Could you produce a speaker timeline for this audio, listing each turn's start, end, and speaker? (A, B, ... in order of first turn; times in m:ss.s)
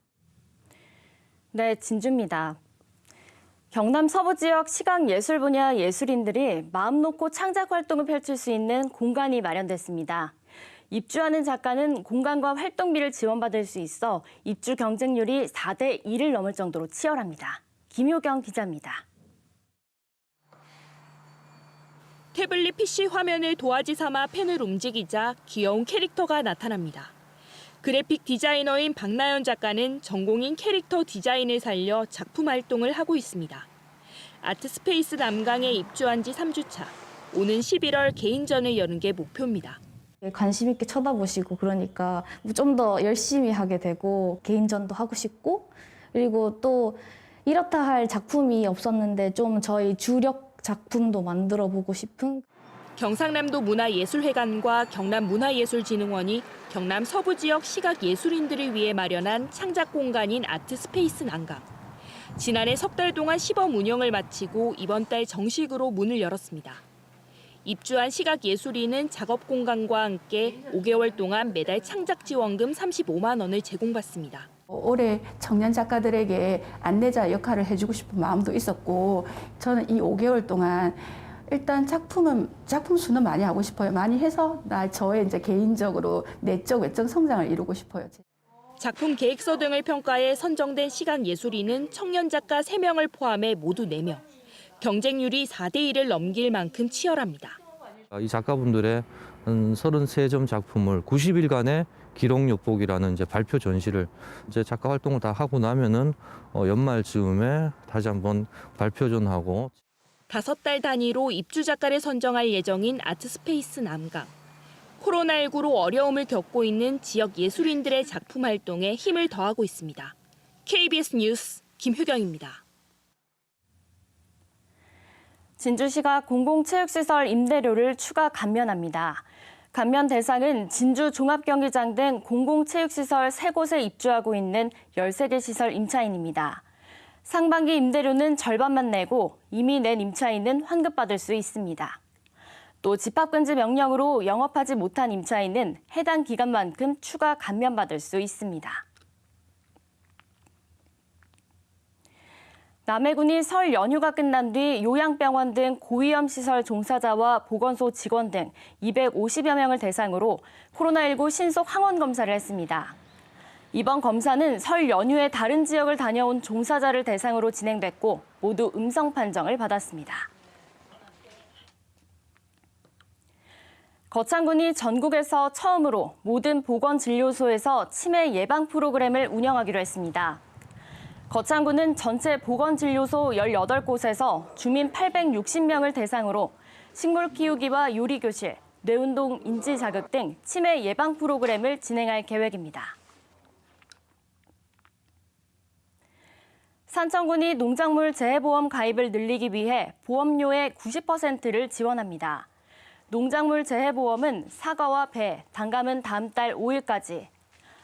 0:01.5-0:02.6 A
0:03.7-0:10.3 A
0:10.9-0:19.0 A
0:22.3-0:27.1 B
0:27.8-0:33.7 B
0:34.4-0:39.8 B
0:40.2-0:52.4 C
0:53.0-1:01.7 B
1:02.4-1:06.8 B
1:07.6-1:14.5 B
1:14.7-1:28.2 D
1:28.8-1:34.2 B
1:34.8-1:37.6 B
1:38.1-1:49.7 E
1:50.3-1:54.3 B
1:55.0-2:00.1 B
2:00.6-2:02.6 B
2:05.6-2:16.6 A
2:17.2-2:22.0 A
2:22.8-2:28.8 A
2:32.9-2:43.0 A
2:43.7-2:50.3 A
2:54.1-3:00.4 A
3:01.3-3:13.0 A
3:16.9-3:22.5 A
3:23.1-3:27.3 A